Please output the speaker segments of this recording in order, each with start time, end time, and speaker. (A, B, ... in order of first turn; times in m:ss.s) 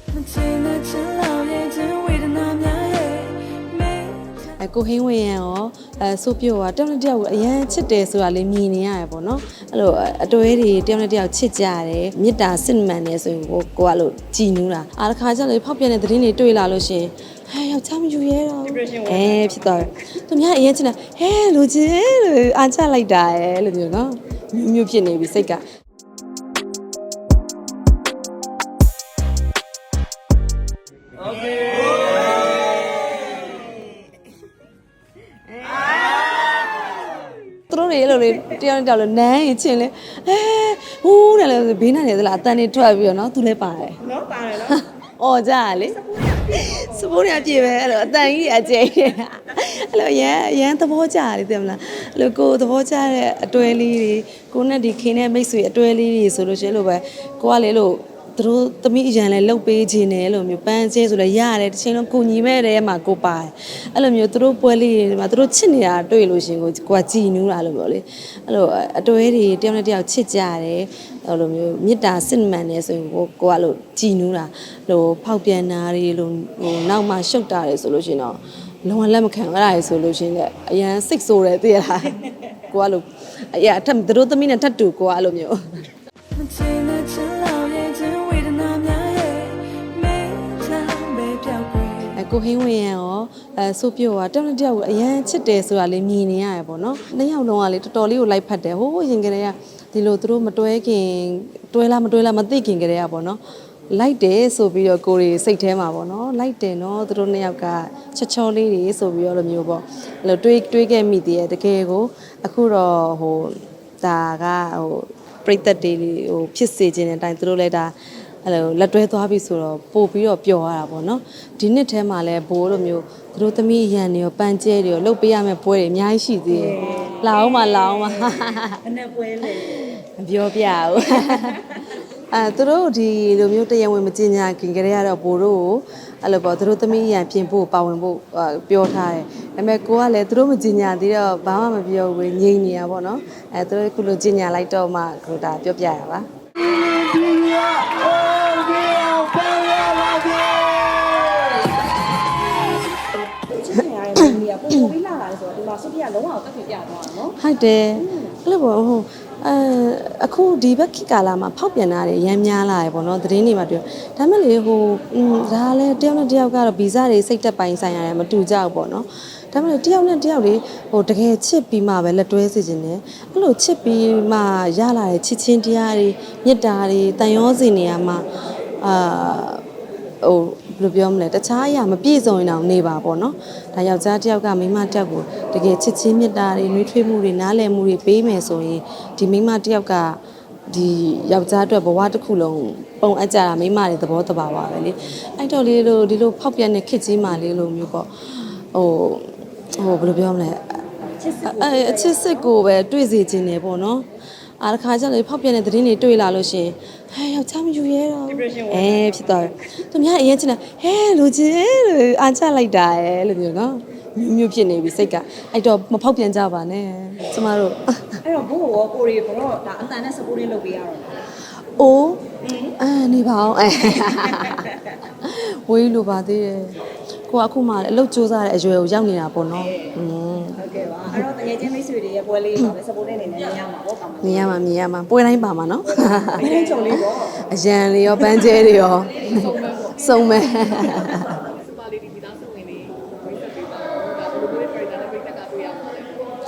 0:00.1-0:04.5 A
0:04.6-0:25.6 B
0:18.7-0:19.5 C
0:37.7-0:44.0 B
0:44.0-0:44.8 C
0:44.7-1:25.8 B
0:45.8-0:47.6 C
1:26.3-1:32.1 A
1:32.1-1:43.4 B
1:43.9-1:57.9 B
1:58.4-2:08.8 B
2:06.5-2:09.8 C
2:09.6-2:26.3 B
2:11.2-2:11.8 C
2:26.8-2:31.1 A
2:33.3-2:37.3 C
2:37.3-2:58.2 B
2:38.0-2:38.3 C
2:58.8-2:59.6 B
3:00.2-3:18.1 B
3:18.7-3:20.8 B
3:21.2-3:22.4 C
3:21.4-3:24.1 B
3:24.6-3:38.2 B
3:28.3-3:29.5 C
3:38.2-3:41.2 C
3:41.6-3:50.6 B
3:42.4-3:42.7 C
3:44.4-3:44.9 C
3:50.6-3:54.6 C
3:54.2-4:01.5 B
3:55.9-3:57.4 C
3:59.3-4:00.3 A
4:01.0-4:06.3 A